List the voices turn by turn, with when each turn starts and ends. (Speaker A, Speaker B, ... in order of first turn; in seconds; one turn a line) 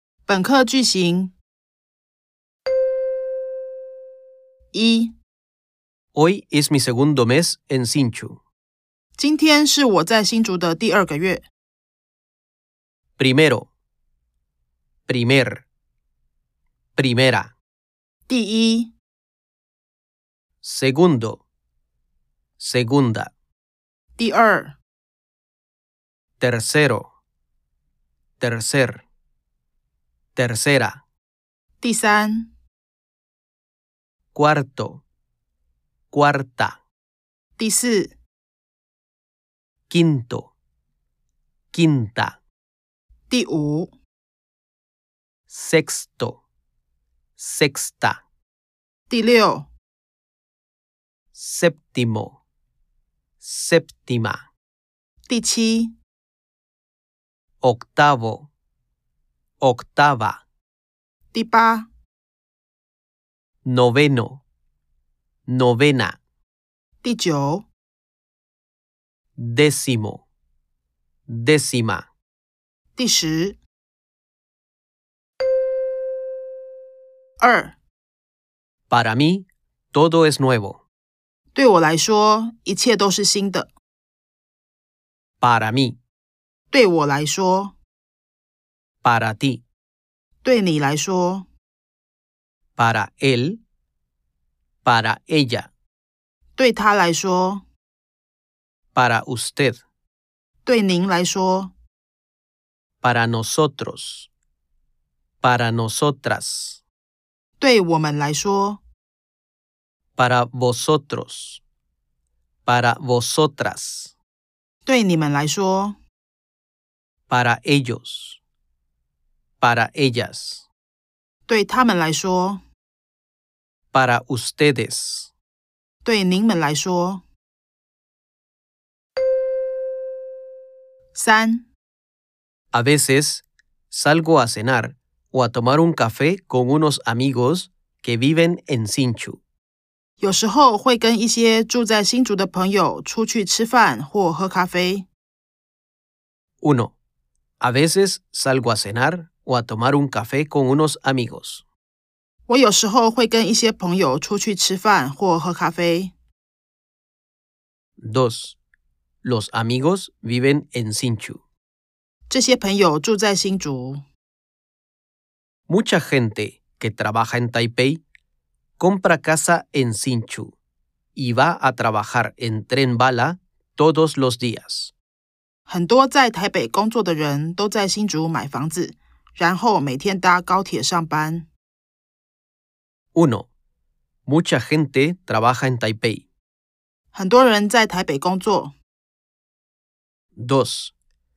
Speaker A: 0.2-1.3
Speaker A: 4.7-5.1
Speaker B: 6.1-8.4
Speaker A: 9.2-11.4
Speaker B: 13.2-13.7
Speaker B: 15.1-15.6
Speaker B: 16.9-17.5
Speaker A: 18.3-18.9
Speaker B: 20.6-21.4
Speaker B: 22.6-23.3
Speaker A: 24.2-24.8
Speaker B: 26.4-27.1
Speaker B: 28.4-29.0
Speaker B: 30.4-31.0
Speaker A: 31.8-32.5
Speaker B: 34.3-35.0
Speaker B: 36.1-36.8
Speaker A: 37.6-38.1
Speaker B: 39.9-40.5
Speaker B: 41.7-42.4
Speaker A: 43.3-43.9
Speaker B: 45.5-46.4
Speaker B: 47.4-48.2
Speaker A: 49.1-49.7
Speaker B: 51.3-52.4
Speaker B: 53.4-54.4
Speaker A: 55.3-55.9
Speaker B: 57.6-58.5
Speaker B: 59.6-60.4
Speaker A: 61.3-61.9
Speaker B: 63.6-64.4
Speaker B: 65.5-66.2
Speaker A: 67.0-67.7
Speaker B: 69.4-70.2
Speaker B: 71.3-72.0
Speaker A: 73.0-73.6
Speaker A: 77.4-77.8
Speaker B: 78.9-80.8
Speaker A: 81.5-83.7
Speaker B: 85.4-86.0
Speaker A: 86.7-87.8
Speaker B: 89.0-89.6
Speaker A: 90.4-91.5
Speaker B: 92.8-93.6
Speaker B: 94.8-95.7
Speaker A: 96.5-97.6
Speaker B: 98.9-99.8
Speaker A: 100.6-101.7
Speaker B: 103.0-104.3
Speaker B: 105.4-106.8
Speaker A: 107.6-108.8
Speaker B: 110.2-111.6
Speaker B: 112.7-114.1
Speaker A: 114.8-116.0
Speaker B: 117.3-118.4
Speaker B: 119.6-120.7
Speaker A: 121.5-122.6
Speaker B: 123.9-125.3
Speaker A: 126.0-127.2
Speaker A: 131.1-131.7
Speaker B: 132.7-139.4
Speaker A: 140.2-145.1
Speaker B: 146.6-146.9
Speaker B: 147.6-151.6
Speaker A: 152.5-156.1
Speaker B: 158.0-158.6
Speaker B: 159.2-161.4
Speaker A: 162.3-164.0
Speaker B: 165.7-168.0
Speaker B: 168.8-170.5
Speaker B: 171.2-174.9
Speaker A: 175.7-181.5
Speaker B: 183.1-183.5
Speaker B: 184.3-186.2
Speaker A: 187.1-188.7
Speaker B: 190.3-190.9